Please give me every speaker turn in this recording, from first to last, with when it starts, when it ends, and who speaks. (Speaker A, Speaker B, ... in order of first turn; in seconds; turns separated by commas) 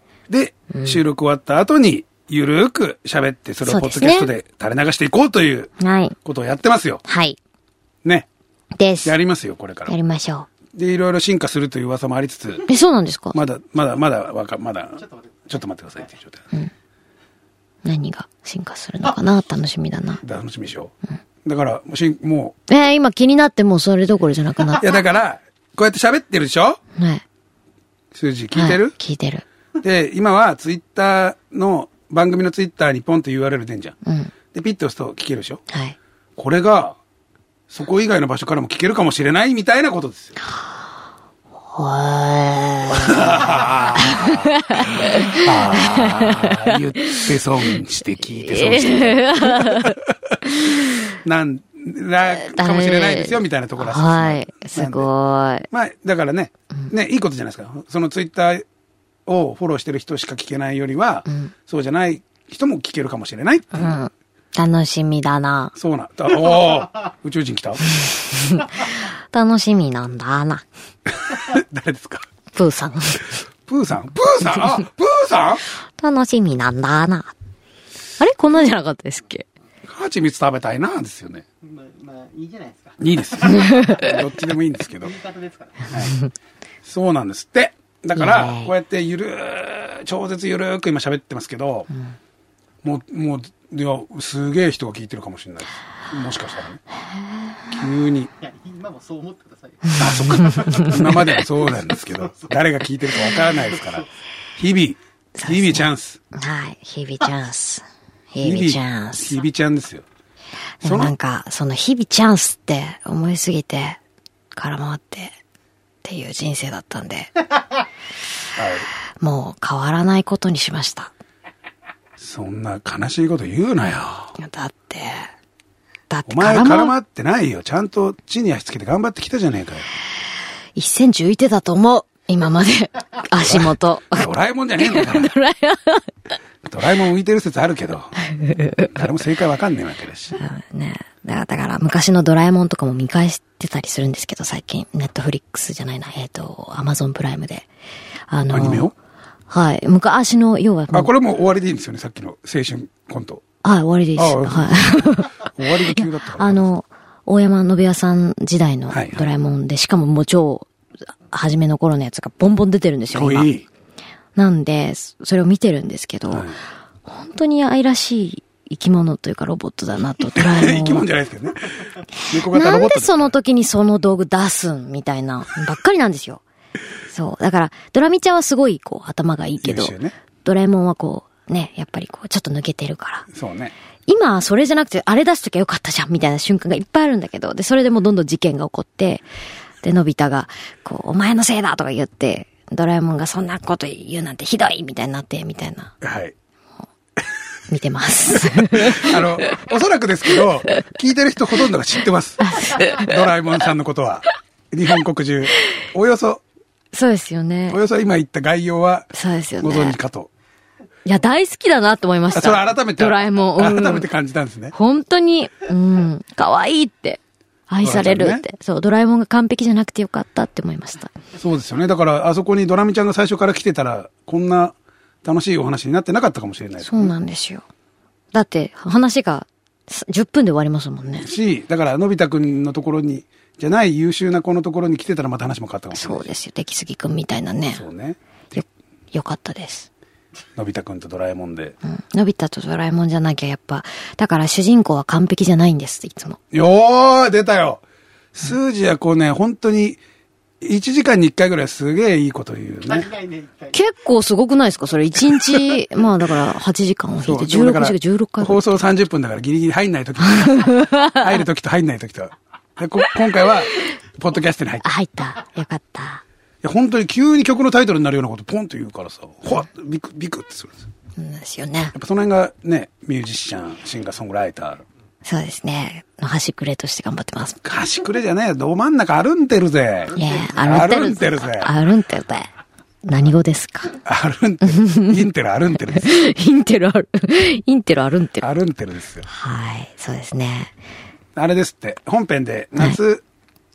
Speaker A: 0.3-5.7, Speaker B: 0.7-1.0, Speaker B: 3.6-4.3, Speaker B: 5.8-6.2, Speaker A: 6.2-7.0, Speaker B: 7.0-7.4, Speaker B: 8.8-9.1, Speaker A: 9.0-9.9, Speaker B: 9.9-10.5, Speaker A: 10.7-12.7, Speaker B: 12.7-13.4, Speaker A: 13.3-16.4, Speaker B: 17.8-20.2, Speaker A: 20.2-22.5, Speaker B: 22.7-24.9, Speaker A: 24.8-26.8, Speaker B: 26.9-27.2, Speaker A: 28.1-28.9, Speaker B: 28.5-29.4, Speaker A: 29.8-34.0, Speaker B: 34.0-34.3, Speaker A: 34.5-35.6, Speaker B: 35.7-36.0, Speaker A: 36.4-37.0, Speaker A: 37.7-40.4, Speaker B: 41.7-50.9, Speaker A: 42.9-50.0, Speaker A: 51.2-55.1, Speaker B: 52.3-55.7, Speaker A: 55.7-58.6, Speaker A: 59.2-64.0, Speaker B: 61.3-61.5, Speaker B: 63.7-65.7, Speaker A: 65.7-67.8, Speaker B: 68.0-70.6, Speaker A: 71.2-72.2, Speaker B: 72.5-73.4, Speaker A: 73.7-75.6, Speaker B: 76.0-77.3, Speaker B: 78.2-79.5, Speaker A: 79.9-81.4, Speaker C: 81.7-82.9, Speaker A: 83.0-85.2, Speaker B: 83.5-84.2, Speaker C: 85.3-85.8, Speaker A: 85.8-86.2, Speaker A: 86.8-91.9, Speaker B: 88.2-88.7, Speaker A: 92.8-96.8, Speaker B: 97.1-97.7, Speaker A: 97.7-98.3, Speaker C: 98.5-99.9, Speaker B: 99.8-101.2, Speaker A: 100.0-106.2, Speaker B: 105.3-109.4, Speaker A: 108.4-110.0, Speaker B: 110.8-114.0, Speaker A: 110.8-111.1, Speaker B: 114.5-115.3, Speaker B: 116.0-117.3, Speaker A: 118.6-118.9, Speaker B: 119.2-121.1, Speaker A: 122.2-124.3, Speaker B: 124.4-125.3, Speaker B: 126.1-126.9, Speaker A: 126.3-129.9, Speaker B: 130.7-136.1, Speaker A: 133.4-135.3, Speaker A: 136.7-138.2, Speaker B: 138.3-138.9, Speaker A: 138.8-140.4, Speaker B: 140.3-147.7, Speaker B: 148.3-148.9, Speaker A: 148.5-148.9, Speaker B: 149.5-151.1, Speaker A: 150.9-153.4, Speaker B: 153.6-160.7, Speaker A: 154.2-156.7, Speaker A: 158.9-159.3, Speaker B: 161.3-163.5, Speaker A: 163.1-163.7, Speaker B: 164.3-171.1, Speaker A: 166.3-166.6, Speaker A: 170.3-173.3, Speaker B: 172.2-176.4, Speaker B: 177.1-183.2, Speaker A: 179.6-180.1, Speaker A: 183.3-183.7, Speaker B: 184.1-189.2, Speaker B: 189.8-195.9, Speaker A: 196.0-196.3, Speaker B: 197.7-199.5, Speaker A: 198.3-206.4, Speaker B: 202.4-203.3, Speaker B: 206.9-207.8, Speaker A: 207.7-210.3, Speaker B: 209.1-210.0, Speaker B: 211.0-214.1, Speaker A: 212.3-214.7, Speaker B: 214.7-221.2, Speaker A: 217.8-218.4, Speaker A: 221.3-227.1, Speaker B: 226.8-227.6, Speaker B: 228.3-231.3, Speaker A: 231.2-236.3, Speaker B: 235.9-237.8, Speaker A: 237.7-238.6, Speaker B: 238.6-239.9, Speaker A: 240.6-241.8, Speaker B: 241.8-246.4, Speaker A: 246.5-247.8, Speaker A: 248.3-250.0, Speaker A: 250.6-253.2, Speaker B: 253.7-258.7, Speaker A: 257.2-264.9, Speaker B: 260.2-261.4, Speaker B: 264.8-266.2, Speaker A: 266.6-270.7, Speaker B: 271.2-271.9, Speaker A: 271.9-274.8, Speaker B: 275.2-277.6, Speaker A: 277.6-281.7, Speaker B: 280.1-282.5, Speaker B: 283.0-284.0, Speaker A: 284.0-286.2, Speaker B: 284.6-285.2, Speaker B: 285.9-288.5, Speaker A: 288.4-289.2, Speaker B: 289.2-290.7, Speaker A: 291.4-293.2